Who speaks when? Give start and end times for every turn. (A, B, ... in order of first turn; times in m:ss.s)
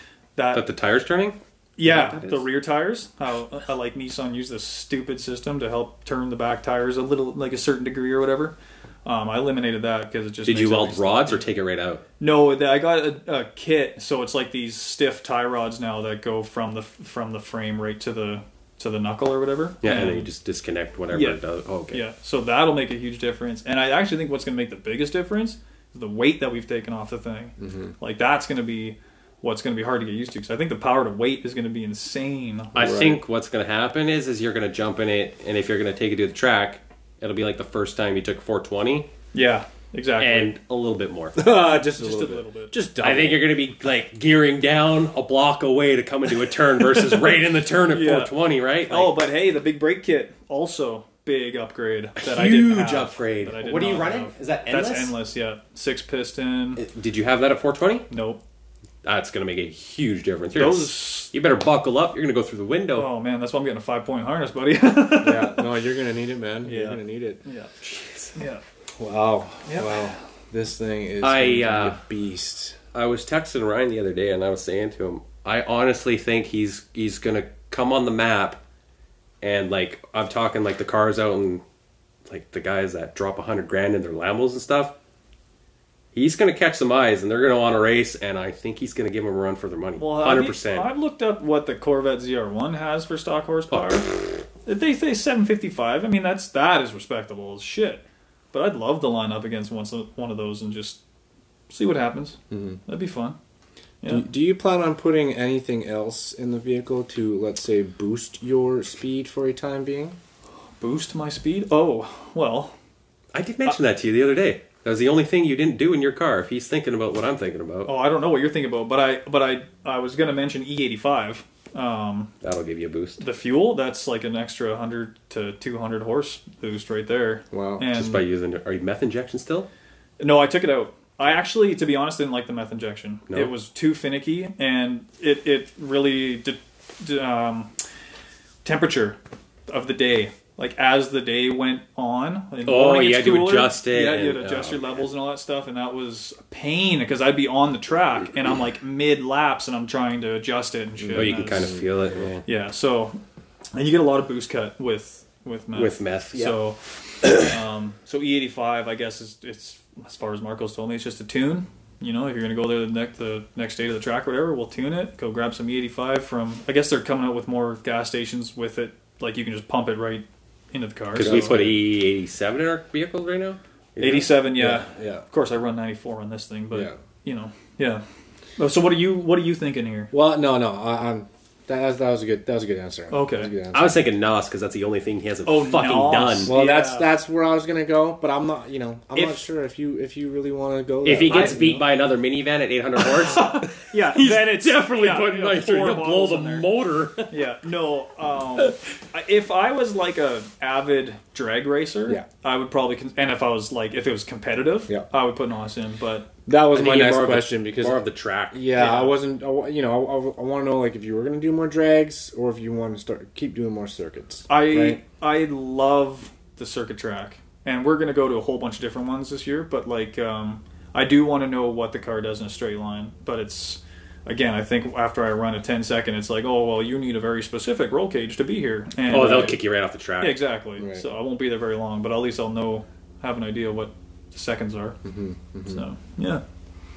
0:00.4-0:00.6 A
0:00.5-0:02.4 B
0:01.8-0:11.4 A
0:10.4-0:12.0 B
0:12.2-0:20.3 A
0:19.8-0:22.0 B
0:21.1-0:21.4 A
0:21.9-0:33.2 A
0:27.6-0:27.9 C
0:32.7-0:39.1 B
0:39.3-0:40.5 A
0:40.2-0:41.4 B
0:41.4-0:43.5 C
0:41.6-0:42.7 A
0:43.0-0:49.2 B
0:47.9-0:48.3 A
0:48.9-0:56.8 A
0:52.2-0:55.1 B
0:56.8-0:58.1 B
0:58.1-0:58.4 A
0:59.0-1:03.1 B
1:00.5-1:01.3 A
1:02.9-1:05.7 A
1:05.2-1:07.4 C
1:06.6-1:07.7 A
1:07.8-1:08.3 B
1:08.3-1:08.6 A
1:09.0-1:12.8 C
1:09.6-1:10.1 A
1:11.2-1:12.0 B
1:12.9-1:18.6 B
1:19.4-1:21.6 B
1:22.3-1:24.9 B
1:26.1-1:30.9 B
1:30.0-1:34.1 A
1:33.7-1:34.1 B
1:34.6-1:41.0 A
1:41.7-1:43.4 A
1:42.5-1:42.8 C
1:44.0-1:44.3 A
1:44.0-1:50.2 C
1:50.8-1:52.7 A
1:53.3-1:57.9 B
1:57.8-2:02.3 A
2:02.4-2:03.2 B
2:03.2-2:08.2 A
2:07.5-2:07.8 C
2:07.9-2:09.7 B
2:10.2-2:17.7 A
2:18.6-2:19.2 A
2:19.7-2:31.8 A
2:22.6-2:25.0 B
2:31.0-2:31.8 C
2:31.1-2:32.4 B
2:32.4-2:33.2 A
2:33.7-2:51.6 A
2:35.7-2:36.6 B
2:51.1-2:54.3 B
2:51.2-2:51.8 C
2:54.0-2:58.0 A
2:54.6-2:55.2 C
2:56.7-2:57.0 C
2:58.6-3:00.1 A
3:00.1-3:03.9 C
3:03.1-3:03.5 A
3:03.7-3:06.5 B
3:05.4-3:07.1 A
3:06.4-3:11.8 C
3:09.1-3:09.4 A
3:11.0-3:17.3 B
3:11.2-3:11.8 A
3:13.0-3:16.7 A
3:17.3-3:26.3 A
3:26.5-3:35.0 C
3:26.7-3:28.6 B
3:28.7-3:29.2 A
3:34.5-3:49.6 A
3:49.1-3:50.4 B
3:49.1-3:49.5 C
3:50.2-3:55.0 A
3:50.8-3:51.0 C
3:55.0-3:55.8 C
3:55.6-3:56.4 A